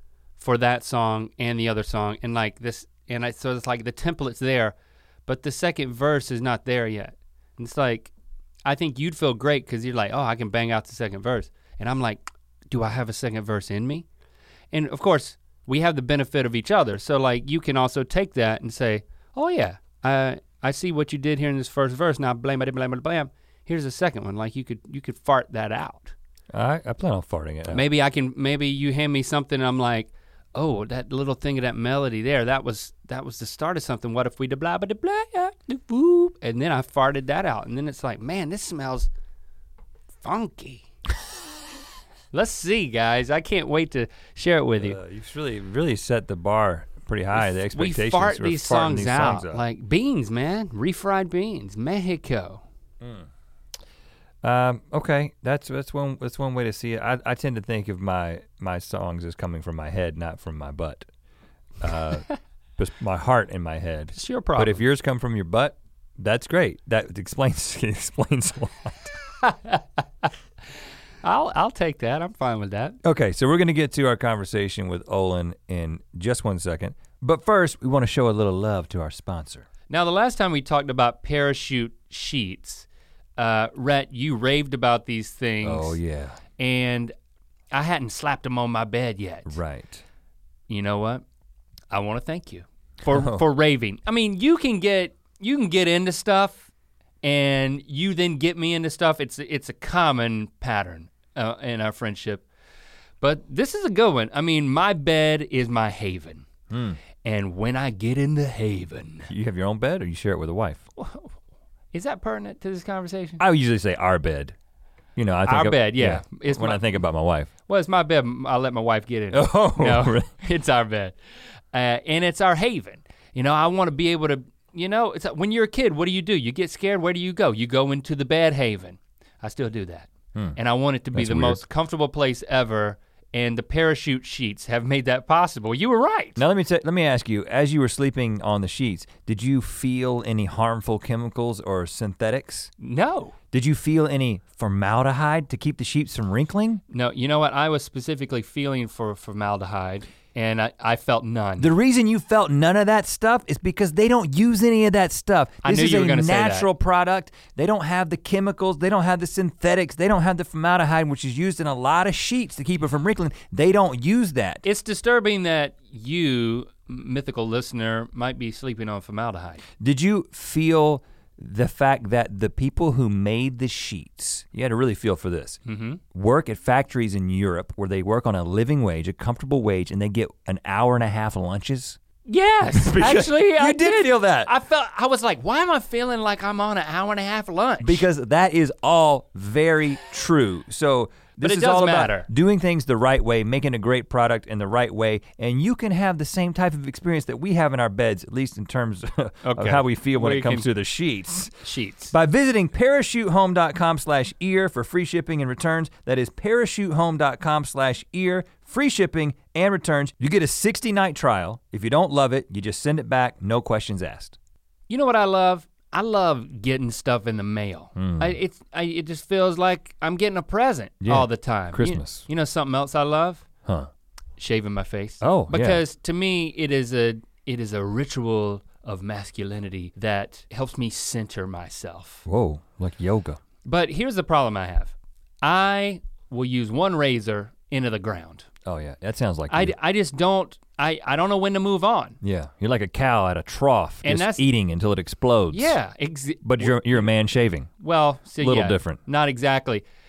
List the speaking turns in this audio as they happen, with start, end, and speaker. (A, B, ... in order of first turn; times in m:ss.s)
0:00.4-0:04.8 A
0:05.3-0:08.1 A
0:08.6-0:14.1 A
0:14.7-0:26.2 A
0:26.5-0:27.8 B
0:27.7-0:39.1 A
0:40.2-0:40.9 A
0:42.3-0:45.0 A
0:44.8-0:49.6 B
0:47.4-0:52.6 A
0:53.0-0:53.3 B
0:54.4-1:01.1 B
1:01.8-1:09.1 B
1:04.1-1:04.8 A
1:09.4-1:09.8 A
1:11.2-1:13.0 A
1:13.0-1:19.7 B
1:19.9-1:26.0 A
1:25.6-1:26.4 B
1:26.6-1:27.1 A
1:27.7-1:29.6 A
1:29.5-1:30.0 B
1:30.7-1:31.2 A
1:31.9-1:36.7 A
1:33.1-1:33.4 B
1:37.2-1:42.5 A
1:43.2-1:46.5 A
1:46.7-1:47.0 B
1:47.2-1:49.3 A
1:49.3-1:50.8 B
1:51.0-1:51.4 A
1:51.9-1:53.4 A
1:53.4-1:54.6 B
1:55.2-1:57.5 B
1:55.5-1:57.0 A
1:57.7-2:01.2 A
1:59.3-2:00.3 B
2:01.7-2:16.4 A
2:11.1-2:11.6 B
2:16.4-2:22.7 B
2:22.8-2:23.4 A
2:23.5-2:26.8 B
2:26.9-2:31.7 A
2:31.6-2:44.6 B
2:35.6-2:36.7 A
2:44.6-2:49.6 A
2:49.8-2:55.6 B
2:55.7-2:56.0 A
2:56.1-3:02.0 B
3:02.3-3:08.0 A
3:02.7-3:04.5 B
3:07.8-3:34.4 B
3:11.4-3:12.3 A
3:19.4-3:20.7 A
3:21.6-3:22.1 A
3:34.9-3:43.5 A
3:38.0-3:38.4 B
3:41.0-3:42.3 B
3:44.4-3:52.2 A
3:45.2-3:45.8 B
3:52.3-3:53.4 B
3:53.6-3:58.5 A
3:58.6-3:59.8 B
3:59.5-4:02.2 A
4:02.2-4:05.8 B
4:04.0-4:04.4 A
4:05.5-4:07.1 A
4:06.4-4:07.7 B
4:07.8-4:09.8 A
4:08.4-4:09.0 B